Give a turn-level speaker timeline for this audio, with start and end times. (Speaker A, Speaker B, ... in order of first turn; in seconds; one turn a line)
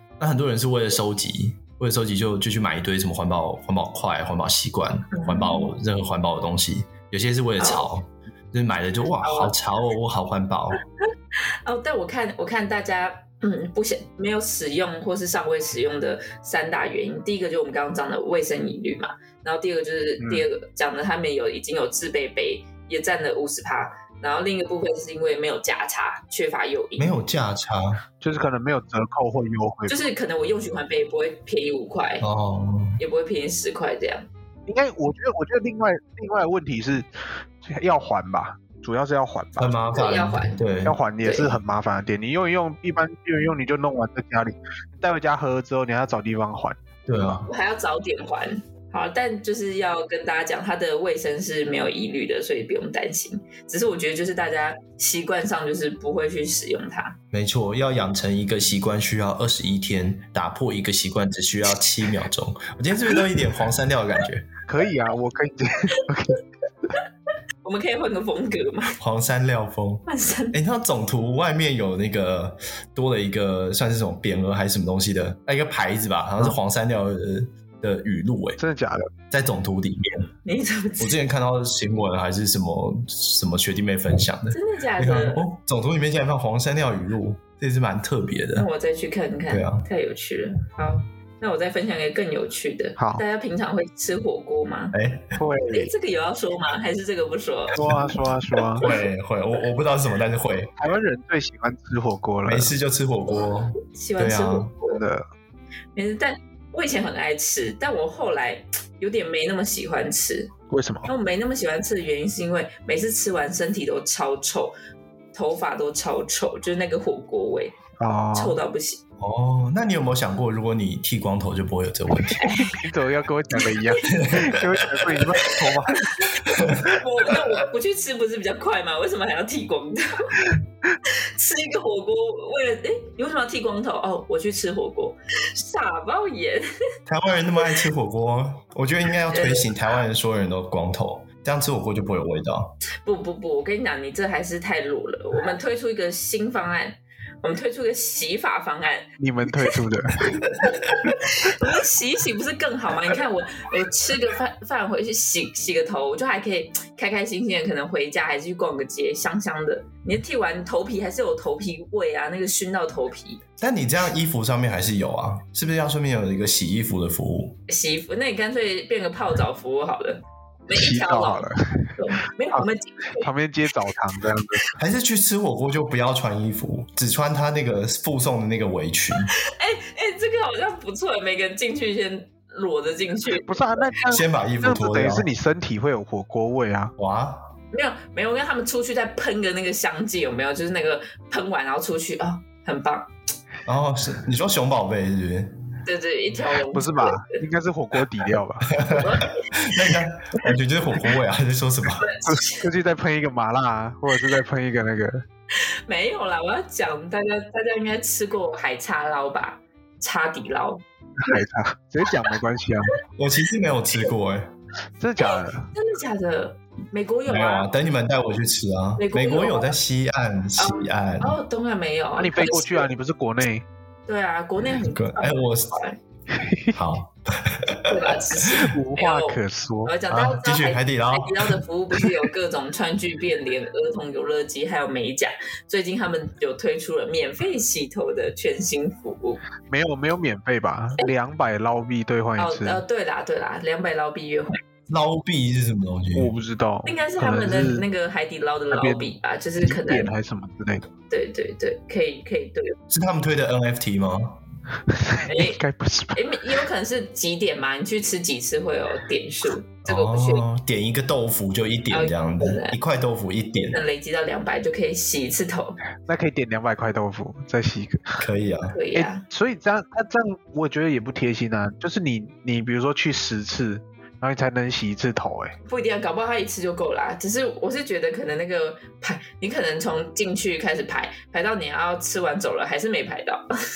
Speaker A: 0.2-10.8
Speaker B: 5.1-5.7
Speaker B: 7.6-7.9
Speaker B: 9.2-9.6
Speaker B: 11.7-27.1
Speaker C: 20.2-20.5
Speaker A: 27.0-28.0
Speaker C: 28.2-30.0
Speaker B: 29.9-32.3
Speaker A: 32.2-33.0
Speaker B: 33.0-34.3
Speaker C: 34.7-39.8
Speaker A: 39.6-41.0
Speaker B: 39.9-40.6
Speaker C: 40.9-46.8
Speaker B: 41.2-41.5
Speaker A: 47.1-47.5
Speaker B: 47.5-57.2
Speaker A: 57.3-64.5
Speaker C: 64.7-66.4
Speaker B: 67.6-69.0
Speaker A: 69.0-78.6
Speaker B: 70.1-70.6
Speaker C: 78.6-79.1
Speaker A: 79.3-80.3
Speaker B: 80.5-81.2
Speaker A: 81.0-88.7
Speaker B: 84.5-85.4
Speaker B: 88.6-95.0
Speaker A: 89.5-89.8
Speaker C: 93.0-93.2
Speaker A: 94.9-95.4
Speaker C: 95.4-95.9
Speaker B: 95.7-97.8
Speaker C: 97.7-98.9
Speaker A: 98.8-100.7
Speaker C: 100.8-102.7
Speaker A: 102.5-104.7
Speaker B: 103.9-105.0
Speaker C: 104.9-105.2
Speaker B: 106.0-110.5
Speaker C: 110.7-111.1
Speaker B: 111.1-114.7
Speaker B: 115.3-117.8
Speaker C: 118.0-118.6
Speaker B: 118.3-119.0
Speaker A: 119.2-122.5
Speaker B: 122.4-122.8
Speaker C: 122.5-126.1
Speaker B: 123.6-124.2
Speaker A: 124.1-125.1
Speaker B: 126.0-130.4
Speaker A: 126.4-127.0
Speaker B: 131.1-136.7
Speaker A: 137.1-142.8
Speaker B: 139.3-139.7
Speaker B: 143.0-149.7
Speaker C: 149.2-150.3
Speaker A: 150.3-150.9
Speaker B: 150.6-163.4
Speaker A: 163.6-167.6
Speaker B: 167.7-173.3
Speaker C: 170.7-172.0
Speaker C: 172.5-174.7
Speaker A: 174.8-179.3
Speaker B: 179.4-183.9
Speaker C: 183.3-186.9
Speaker A: 184.1-185.3
Speaker A: 187.0-187.4
Speaker B: 187.7-193.1
Speaker A: 193.7-195.6
Speaker B: 195.9-197.4
Speaker C: 196.7-198.8
Speaker A: 198.7-202.1
Speaker B: 198.9-199.6
Speaker B: 202.0-202.7
Speaker C: 202.2-205.2
Speaker B: 205.5-210.8
Speaker C: 211.2-213.0
Speaker A: 213.2-214.5
Speaker C: 215.0-215.7
Speaker B: 215.2-217.7
Speaker A: 217.3-221.4
Speaker B: 219.0-219.7
Speaker B: 220.6-222.9
Speaker C: 222.2-223.7
Speaker B: 224.1-226.0
Speaker A: 224.7-225.8
Speaker C: 226.3-226.8
Speaker A: 226.7-228.7
Speaker B: 227.9-239.4
Speaker C: 228.6-229.9
Speaker A: 230.1-231.6
Speaker C: 239.7-242.8
Speaker B: 242.4-244.6
Speaker A: 244.9-246.3
Speaker C: 246.2-247.9
Speaker B: 246.8-250.1
Speaker C: 248.7-250.9
Speaker B: 251.1-252.8
Speaker A: 252.9-254.4
Speaker C: 254.9-256.6
Speaker B: 255.3-255.6
Speaker B: 256.1-260.4
Speaker A: 259.9-263.8
Speaker B: 261.9-262.8
Speaker B: 263.6-265.8
Speaker C: 266.1-268.2
Speaker A: 268.2-268.8
Speaker B: 268.7-269.2
Speaker C: 268.9-275.6
Speaker B: 275.7-283.4